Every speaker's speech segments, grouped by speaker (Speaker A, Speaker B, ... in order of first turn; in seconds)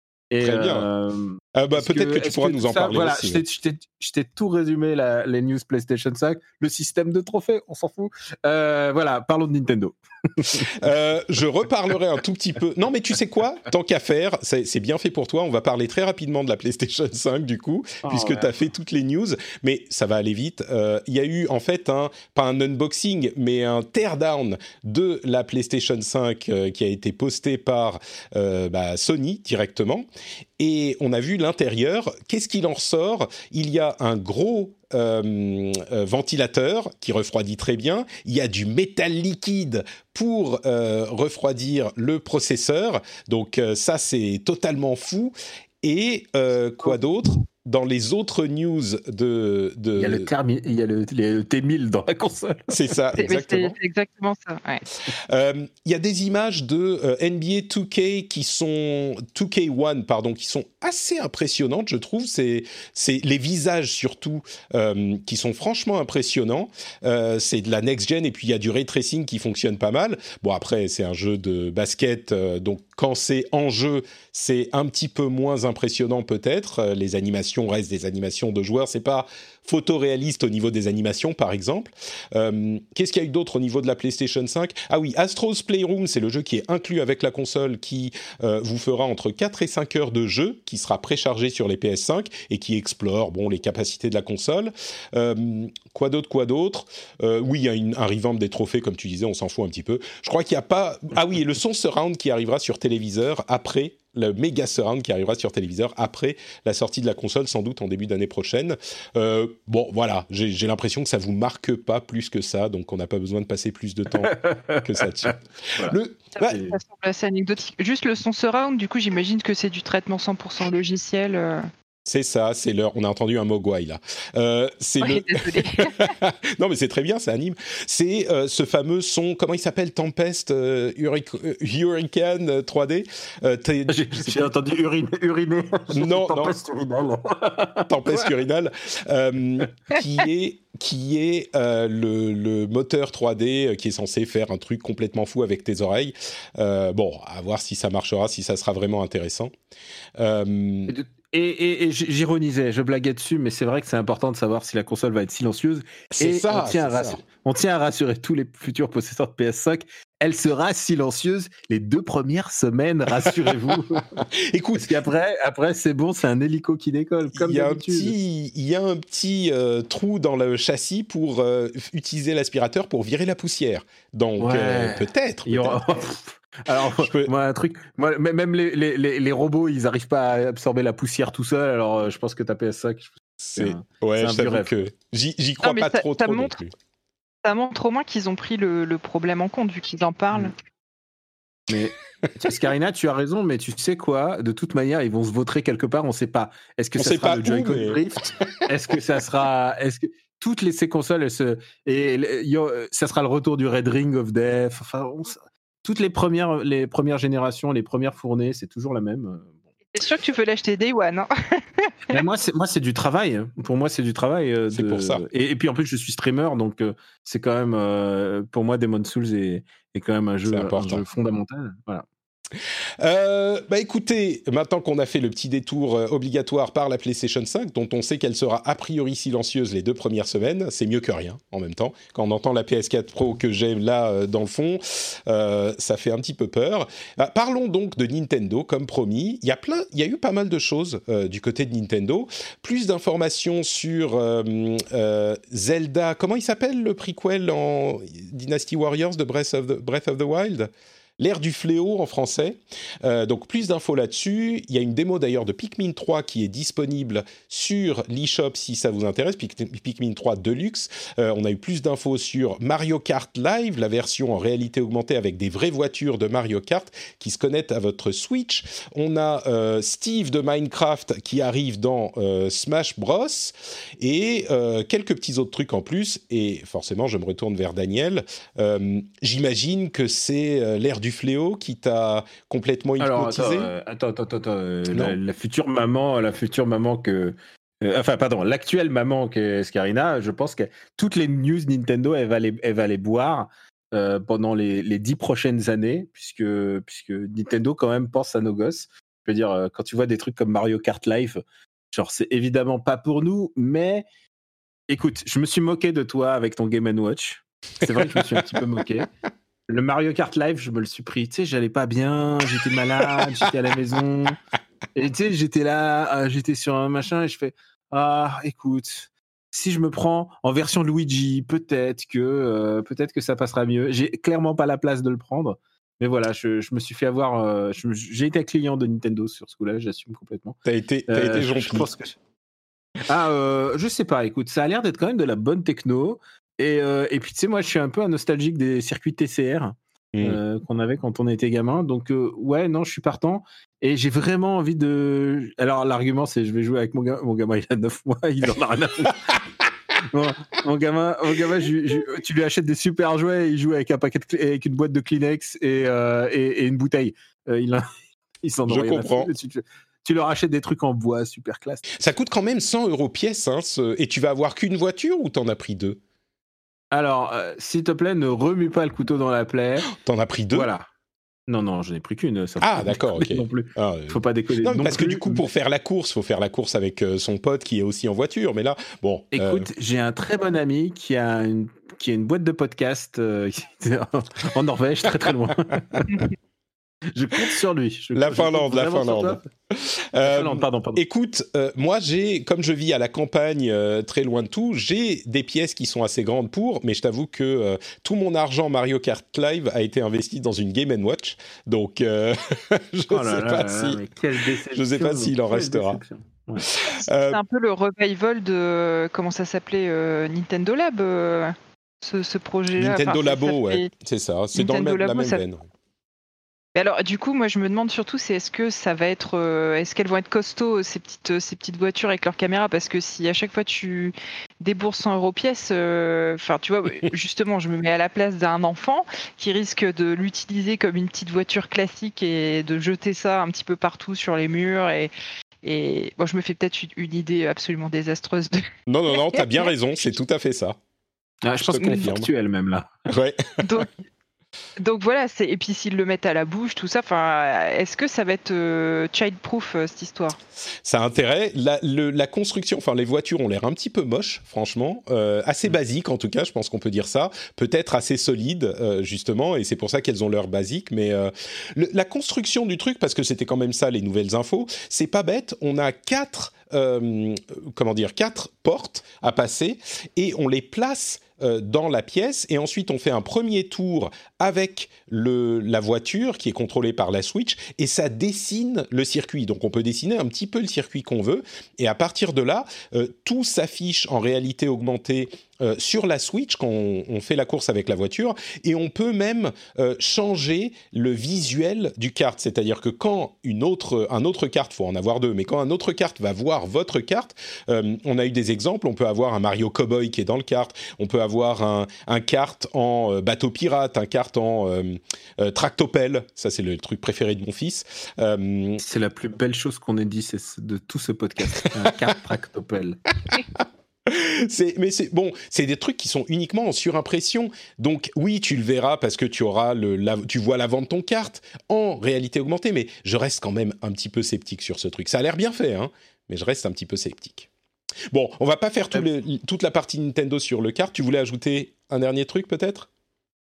Speaker A: 0.3-10.7, 18.0-18.5, 50.0-53.0, 114.2-116.7, 133.9-138.4, 150.9-164.1, 164.8-168.1, 174.4-184.7, 191.7-209.5, 212.1-222.0, 283.0-301.4, 301.9-304.0, 304.9-309.1, 309.7-314.4, 314.9-330.6, 331.1-332.2, 333.1-349.4, 350.0-357.9, 358.4-361.9, 366.9-369.9, 370.5-370.9, 371.5-375.4, 379.3-386.2, 387.1-389.4, 390.2-391.0, 403.1-406.7, 441.4-442.9, 508.8-513.0
Speaker B: 0.4-0.8, 1.5-3.4, 10.7-30.1, 30.6-50.3, 52.7-53.7, 55.1-116.6, 122.0-134.5, 135.9-136.6, 137.9-149.5, 150.2-150.9, 156.1-157.2, 163.3-164.9, 167.3-175.8, 177.0-177.3, 183.4-186.7, 197.0-198.5, 214.7-215.2, 220.5-221.0, 223.0-283.7, 284.9-285.2, 308.0-308.6, 313.0-313.5, 330.6-331.9, 340.1-340.4, 358.7-359.3, 361.9-366.0, 369.9-370.7, 372.6-379.7, 388.1-404.0, 404.7-406.0, 406.6-407.4, 412.7-415.6, 438.9-440.8, 441.6-442.3, 443.1-443.8, 450.8-508.8, 513.3-527.5, 528.1-532.9
Speaker C: 53.2-54.8, 116.4-121.7, 125.0-126.0, 185.6-186.5, 187.4-190.5, 209.9-212.2, 406.9-413.9, 414.5-415.4, 416.7-435.1, 435.6-439.7, 443.6-444.0, 444.8-450.4